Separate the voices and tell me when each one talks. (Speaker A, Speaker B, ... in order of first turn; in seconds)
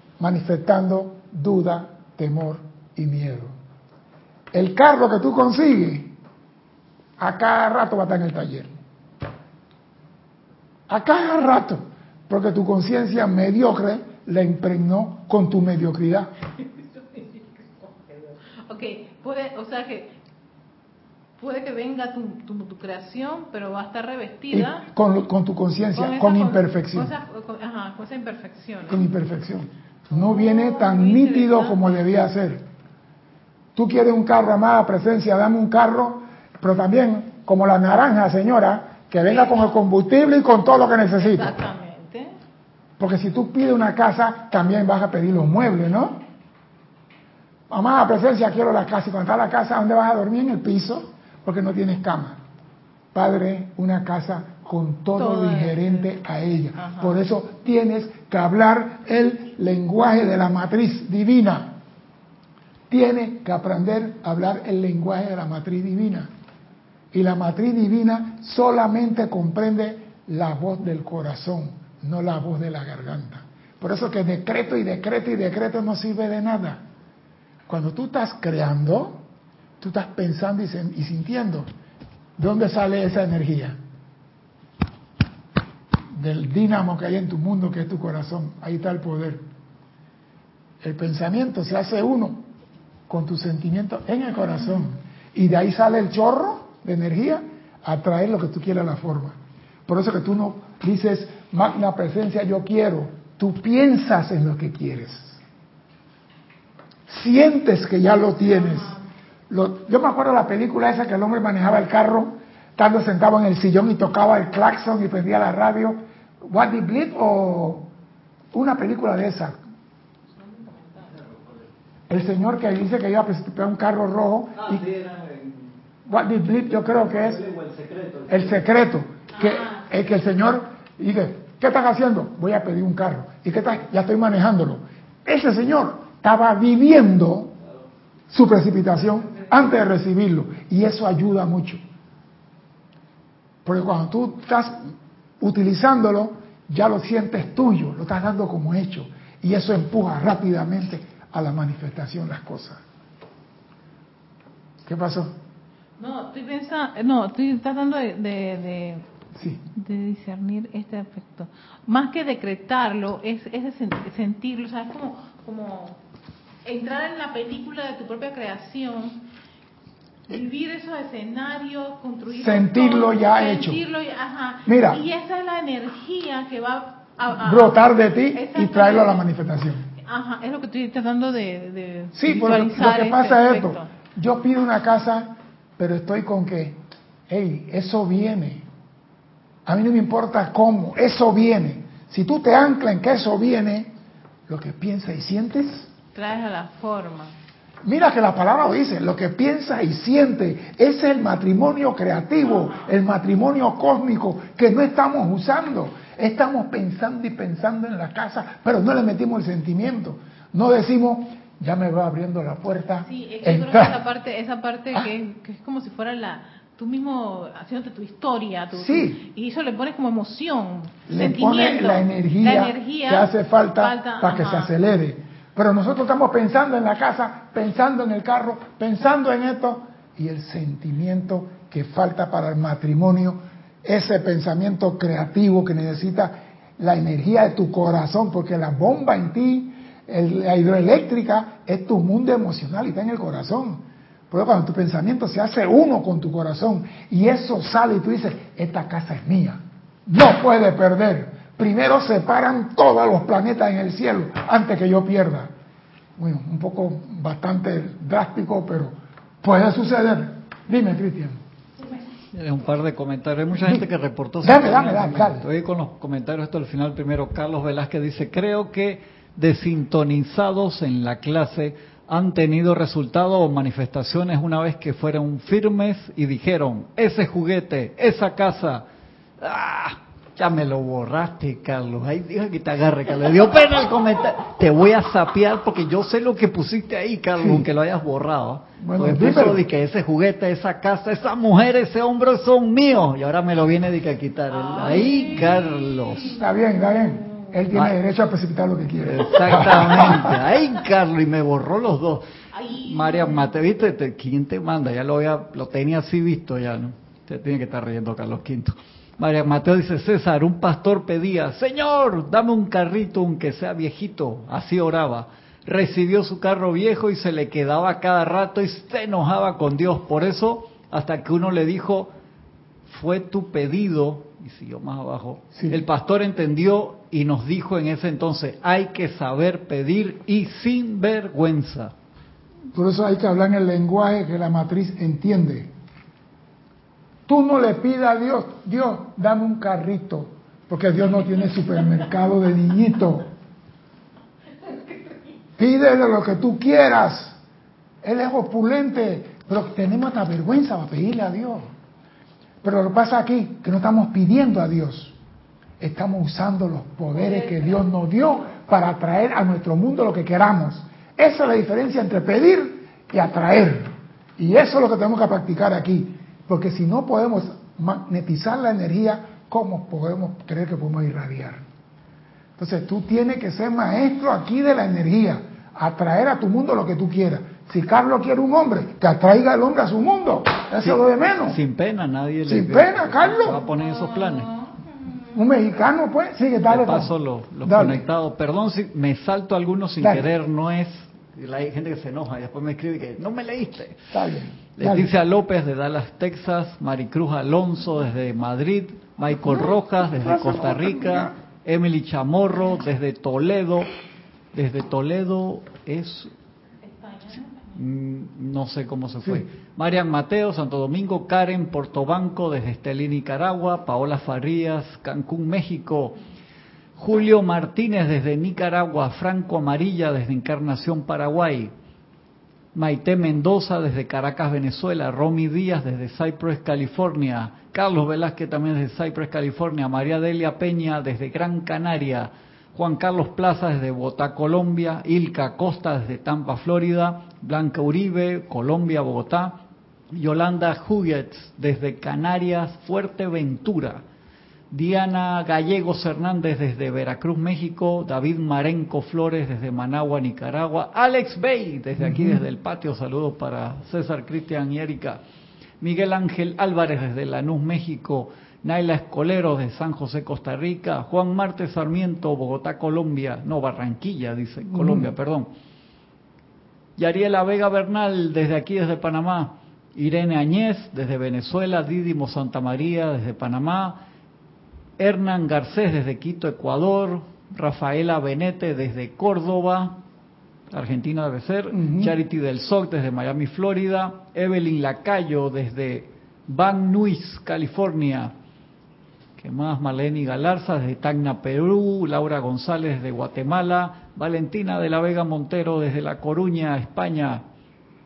Speaker A: 0.2-3.5, 4.5-6.1, 7.2-8.7, 10.9-16.3, 24.5-27.1, 28.9-32.6, 33.8-41.5, 43.0-46.2, 47.7-52.4, 53.1-61.7, 62.9-66.3, 67.1-76.8, 77.7-79.2, 79.8-81.7, 82.4-83.8, 86.1-89.4, 90.8-92.5, 93.1-105.4, 107.1-109.0, 109.5-117.9, 118.5-119.6, 122.1-124.8, 126.0-127.4, 128.3-137.5, 138.3-141.8, 143.6-144.7, 145.4-152.8, 154.8-155.3, 159.3-159.6, 172.3-173.8, 174.7-175.0, 177.3-179.8, 182.1-188.7, 189.7-193.9, 194.5-195.9, 197.8-213.9, 218.7-219.2, 221.1-255.5, 256.2-261.4, 263.6-263.9, 264.4-265.4, 287.4-287.7, 288.8-289.6, 296.3-300.4, 325.5-325.8, 332.7-335.7, 337.3-343.3, 345.6-347.4, 348.0-351.7, 352.6-355.1, 355.8-371.6, 372.6-381.6, 382.4-383.6, 385.3-387.1, 387.6-388.0, 390.0-390.3, 394.1-395.1, 399.3-401.3, 452.0-452.4, 464.7-465.1, 481.7-482.1
Speaker B: 16.6-20.1, 21.4-24.9, 25.9-29.1, 30.1-31.8, 39.2-39.7, 41.1-42.3, 55.1-56.0, 56.8-57.1, 108.4-109.0, 120.3-121.1, 129.3-129.9, 139.1-139.5, 156.0-159.1, 159.7-166.0, 166.6-169.2, 170.3-179.3, 180.0-183.9, 196.1-197.3, 202.4-202.9, 213.0-224.7, 261.8-262.1, 294.5-297.6, 302.5-303.5, 344.7-345.1, 357.3-357.7, 383.5-385.4, 406.8-407.8
Speaker C: 121.1-121.7, 124.5-125.7, 126.7-128.7, 262.3-278.8, 279.4-296.4, 297.7-298.0, 299.0-322.1, 322.9-331.9, 380.8-384.5, 386.6-394.1, 394.8-403.9, 404.5-406.3, 407.7-416.1, 416.9-421.7, 422.7-439.6, 440.1-444.0, 444.7-455.2, 455.8-465.5, 467.0-474.0, 475.0-480.0, 480.7-488.3, 489.4-497.4